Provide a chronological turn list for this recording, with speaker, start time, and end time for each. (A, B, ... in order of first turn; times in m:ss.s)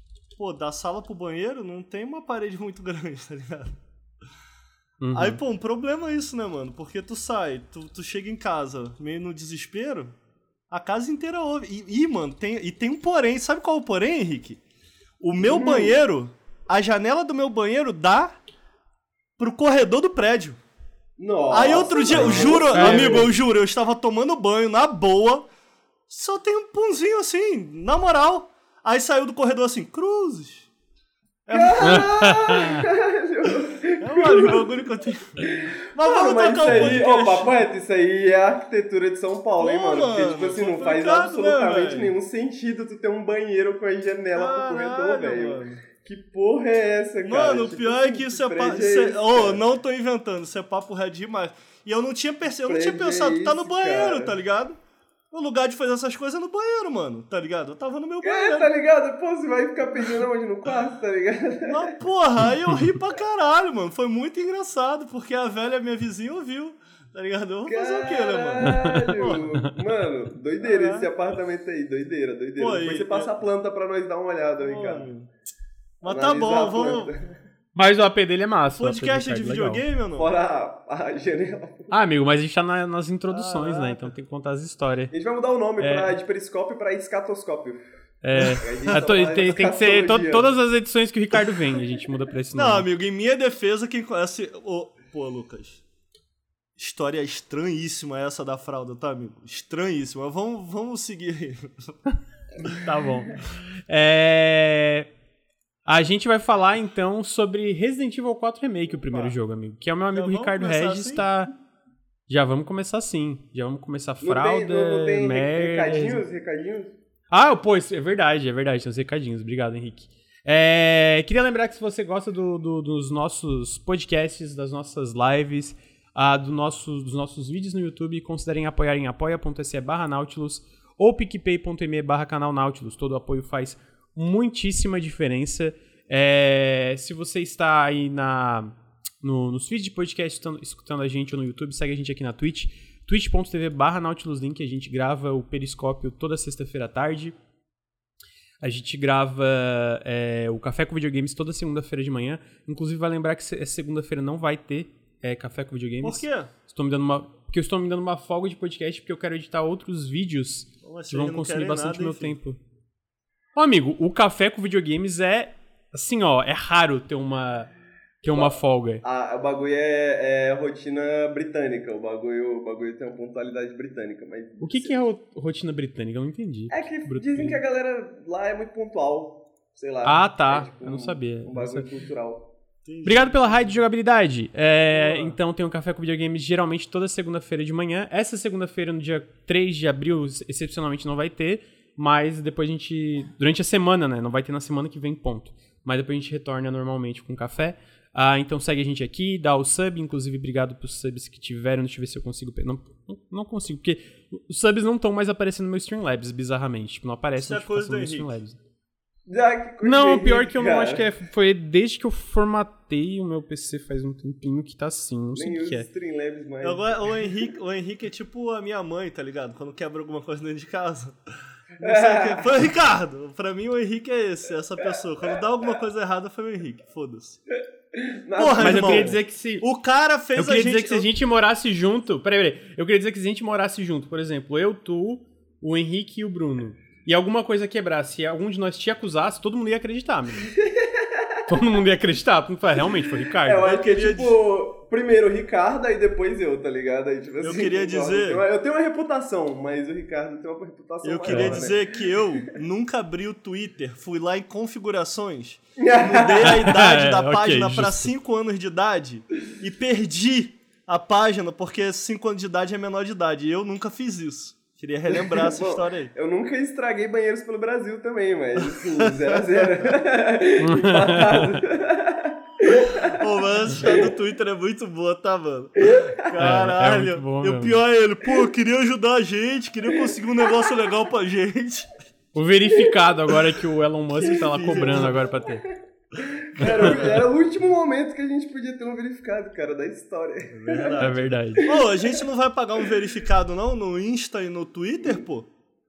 0:00.4-0:03.8 A
0:05.0-0:05.4 B
0:05.1-0:10.2 A
0:10.7-0:14.6 A
0:15.2-0:18.4 A
0:15.4-0:16.0 C
0:19.4-0:20.6 A
0:21.2-0:23.3 C
0:21.5-0:25.5 A
0:22.1-0:23.3 B
0:26.1-0:30.7 A
0:31.5-0:32.1 A
0:31.5-0:34.8 C
0:31.8-0:32.8 B
0:34.0-0:37.6 A
0:35.4-0:49.6 C
0:39.6-0:42.1 A
0:44.3-0:45.8 A
0:47.2-0:54.8 A
0:52.7-0:54.4 C
0:55.3-0:58.7 A
0:58.2-1:02.0 C
1:01.6-1:09.5 A
1:07.7-1:15.1 C
1:08.7-1:09.8 B
1:10.6-1:11.1 A
1:12.6-1:13.3 A
1:14.6-1:15.3 A
1:16.0-1:17.1 A
1:16.0-1:17.3 C
1:17.8-1:19.8 B
1:18.8-1:20.3 A
1:20.2-1:21.9 C
1:21.9-1:25.1 B
1:23.3-1:24.1 A
1:25.1-1:27.8 C
1:25.8-1:26.1 B
1:28.2-1:32.9 B
1:28.4-1:29.0 A
1:28.6-1:30.5 C
1:32.5-1:35.8 A
1:36.8-1:42.0 A
1:42.6-1:45.1 B
1:45.9-1:51.5 B
1:49.1-1:49.4 C
1:50.1-1:51.3 A
1:52.3-1:56.2 B
1:54.2-1:56.9 C
1:57.3-2:27.4 B
2:28.6-2:42.6 B
2:36.0-2:36.5 A
2:40.8-2:42.4 A
2:43.6-2:47.7 B
2:48.2-2:49.0 B
2:48.3-2:55.0 C
2:54.6-2:57.6 B
2:56.7-3:02.5 C
3:00.0-3:01.9 B
3:02.8-3:03.8 A
3:03.0-3:28.6 B
3:04.9-3:05.4 A
3:27.4-3:28.4 A
3:29.3-3:31.1 C
3:29.8-3:35.9 B
3:35.4-3:37.0 C
3:36.6-3:47.4 A
3:41.8-3:42.5 C
3:47.9-3:49.2 C
3:48.4-3:51.1 A
3:48.6-3:49.7 B
3:50.4-4:00.5 B
4:00.6-4:01.2 C
4:01.5-4:03.8 B
4:03.4-4:12.5 C
4:03.6-4:04.4 A
4:07.4-4:08.4 A
4:11.0-4:26.1 A
4:11.3-4:11.6 B
4:15.8-4:16.7 C
4:16.4-4:18.1 B
4:25.1-4:34.1 C
4:28.6-4:29.9 A
4:30.6-4:31.6 B
4:32.7-4:41.9 A
4:35.8-4:36.3 C
4:36.4-4:37.8 B
4:40.0-4:40.8 C
4:42.3-4:45.6 B
4:42.8-4:43.4 C
4:44.2-4:52.2 C
4:44.2-4:45.3 A
4:46.6-4:47.1 B
4:46.6-4:47.2 A
4:50.5-4:55.5 A
4:51.0-4:51.7 B